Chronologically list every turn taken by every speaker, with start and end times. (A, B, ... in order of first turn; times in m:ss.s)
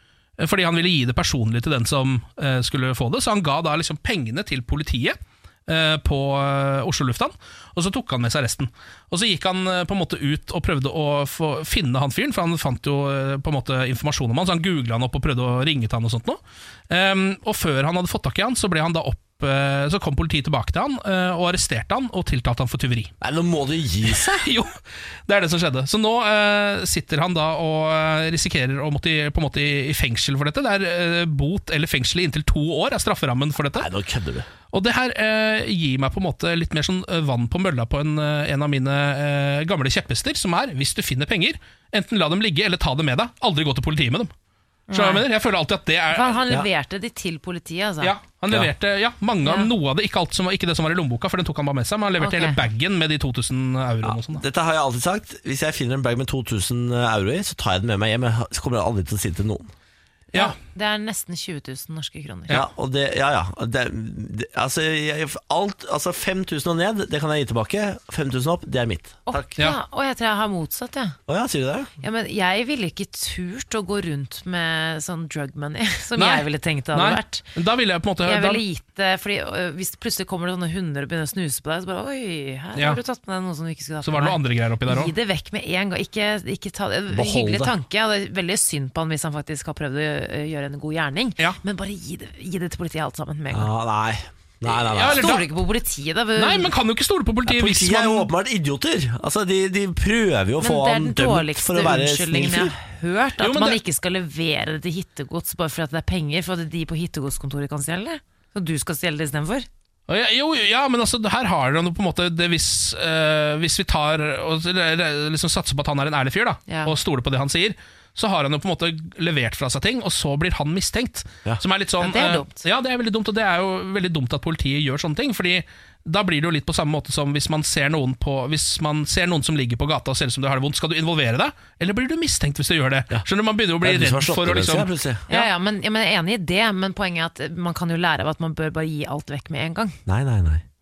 0:00.4-0:16.4 A
0:16.9-0:23.1 A
0:23.2-0:24.5 B
0:24.1-0:24.7 A
0:25.3-0:33.9 A
0:33.7-0:34.5 B
0:34.7-0:44.3 A
0:44.9-0:45.2 C
0:44.9-0:46.4 A
0:46.1-0:48.1 C
0:48.0-0:54.4 A
0:49.4-0:49.7 C
0:52.2-0:52.6 C
0:54.0-0:59.7 B
1:00.3-1:02.6 C
1:02.5-1:09.5 B
1:09.3-1:11.2 C
1:11.3-1:11.9 B
1:12.0-1:17.4 C
1:16.2-1:18.6 A
1:18.2-1:33.7 C
1:24.0-1:25.1 A
1:27.1-1:27.7 B
1:33.5-1:35.4 B
1:34.9-1:35.5 A
1:35.1-1:36.7 C
1:36.4-1:38.3 A
1:37.4-1:42.7 B
1:40.6-1:49.7 C
1:43.4-1:43.8 A
1:50.1-2:15.5 A
1:56.7-1:56.9 C
2:02.0-2:02.6 C
2:13.8-2:15.2 B
2:15.3-2:20.0 C
2:20.0-2:20.6 B